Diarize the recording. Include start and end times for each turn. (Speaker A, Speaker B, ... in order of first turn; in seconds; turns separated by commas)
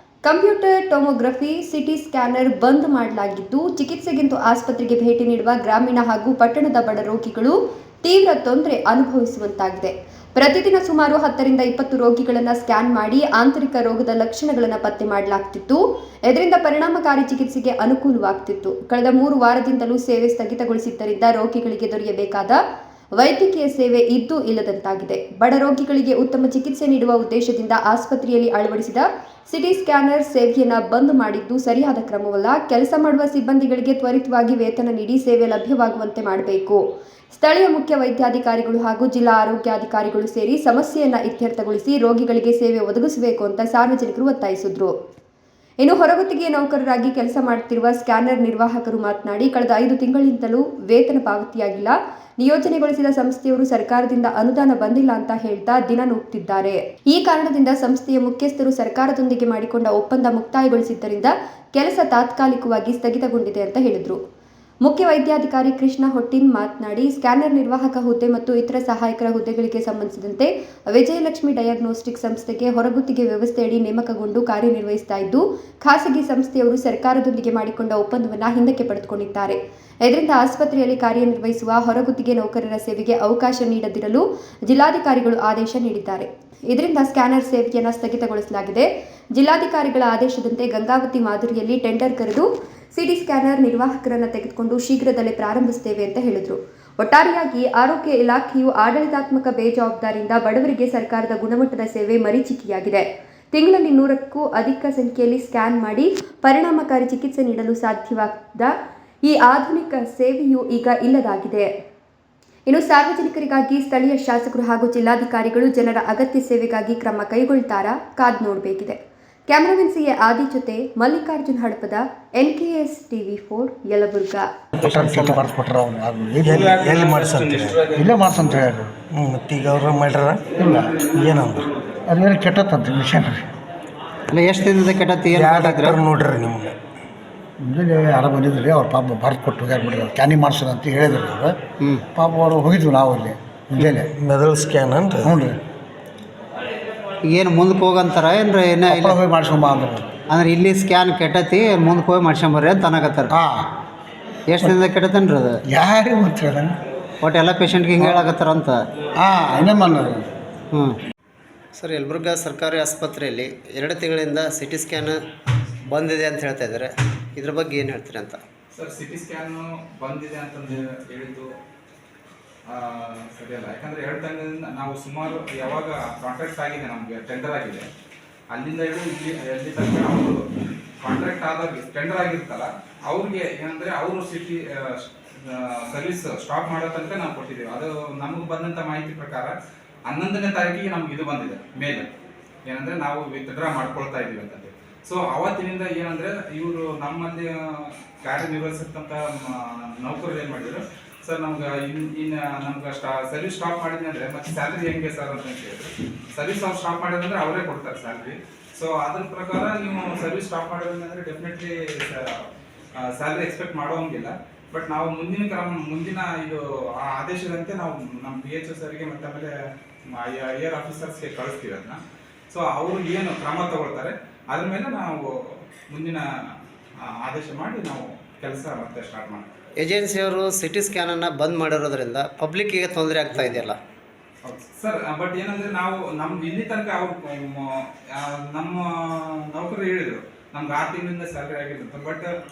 Speaker A: 0.2-22.6, Speaker A: 23.2-36.8, Speaker A: 37.3-44.9, Speaker A: 45.8-64.2, Speaker A: 64.8-108.7, Speaker A: 109.2-111.7, Speaker A: 112.7-119.0, Speaker A: 119.5-124.5, Speaker B: 124.7-126.7, Speaker C: 124.9-125.2, Speaker D: 126.5-127.9, Speaker E: 126.5-128.1, Speaker B: 128.0-128.9, Speaker D: 129.1-131.7, Speaker B: 130.6-130.9, Speaker B: 132.1-133.4, Speaker C: 134.3-136.0, Speaker D: 135.3-136.7, Speaker B: 137.6-141.6, Speaker B: 142.1-144.1, Speaker D: 144.2-145.3, Speaker B: 145.2-145.6, Speaker C: 147.3-149.2, Speaker B: 148.9-150.1, Speaker C: 150.3-153.3, Speaker B: 153.3-153.7, Speaker C: 154.5-155.6, Speaker B: 155.7-156.8, Speaker C: 157.2-158.8, Speaker B: 159.2-160.2, Speaker C: 160.7-161.0, Speaker C: 161.8-165.2, Speaker C: 165.9-168.4, Speaker E: 168.8-171.5, Speaker E: 172.7-177.9, Speaker E: 178.5-180.4, Speaker E: 181.0-189.6, Speaker E: 190.1-192.1, Speaker E: 192.7-212.5, Speaker E: 213.0-219.5, Speaker E: 220.1-222.0, Speaker E: 222.5-226.2, Speaker E: 227.1-229.5, Speaker C: 229.8-233.8, Speaker E: 234.4-242.3